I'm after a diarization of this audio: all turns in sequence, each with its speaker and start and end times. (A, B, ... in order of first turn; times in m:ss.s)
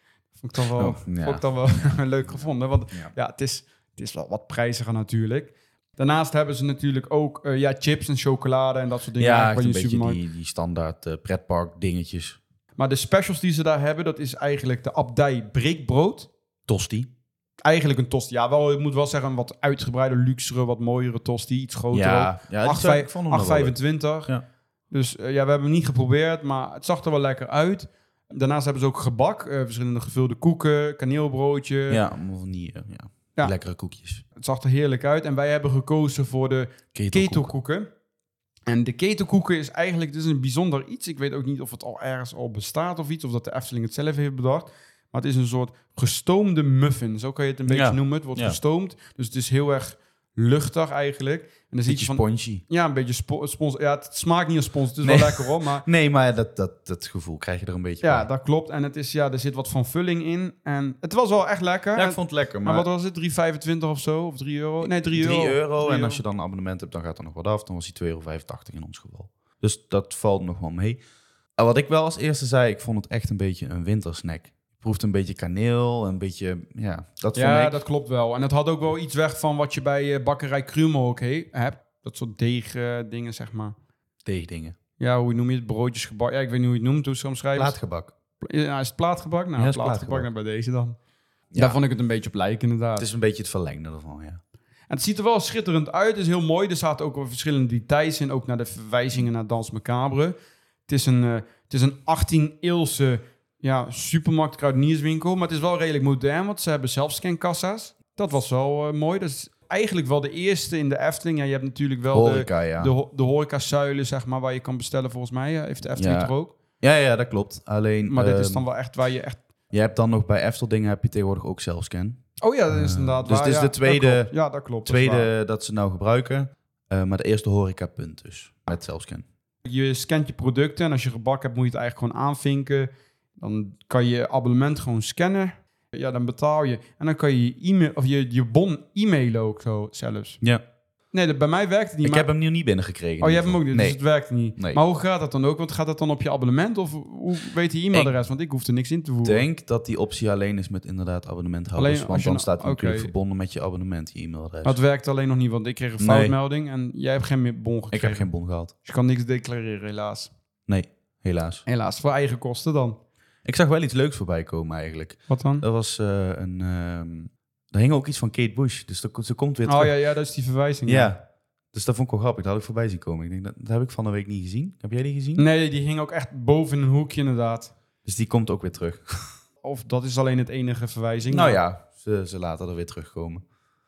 0:00.4-0:10.2 A
0:00.8-0:03.1 B
0:09.2-0:12.4 B
0:12.8-0:16.3 A
0:16.7-0:17.1 B
0:17.6-0:24.3 A
0:21.9-0:24.4 B
0:24.9-0:32.0 A
0:31.9-0:34.2 B
0:34.4-0:37.9 A
0:36.9-0:37.5 B
0:38.7-0:55.8 A
0:47.7-0:48.6 B
0:51.9-0:52.6 B
0:55.0-0:58.2 B
0:58.0-1:06.2 A
1:01.9-1:02.8 B
1:04.8-1:11.0 B
1:11.6-1:17.8 B
1:17.3-1:23.7 A
1:24.2-1:24.8 B
1:25.0-1:27.7 A
1:27.5-1:28.1 B
1:28.4-1:31.0 A
1:29.6-1:30.3 B
1:31.5-1:31.8 B
1:31.5-1:33.0 A
1:33.0-1:34.4 B
1:34.9-1:40.3 A
1:40.9-1:56.5 A
1:52.1-1:52.9 B
1:56.0-1:58.6 B
1:58.1-1:59.4 A
1:59.7-2:02.2 B
2:02.4-2:05.3 A
2:02.7-2:04.3 B
2:04.8-2:09.2 B
2:09.6-2:20.4 A
2:21.1-2:22.3 A
2:22.0-2:24.0 B
2:23.2-2:29.4 A
2:24.6-2:24.8 B
2:29.2-2:34.8 B
2:31.8-2:33.1 A
2:34.6-2:38.3 A
2:36.0-2:36.4 B
2:37.9-2:38.7 B
2:38.8-2:40.3 A
2:40.7-2:41.6 B
2:41.6-2:43.0 A
2:43.4-2:49.9 B
2:45.3-2:45.6 A
2:49.6-2:51.1 A
2:50.9-2:51.2 B
2:51.7-2:55.4 B
2:55.4-2:57.7 A
2:58.0-2:59.3 B
2:59.6-3:01.6 A
3:01.3-3:03.4 B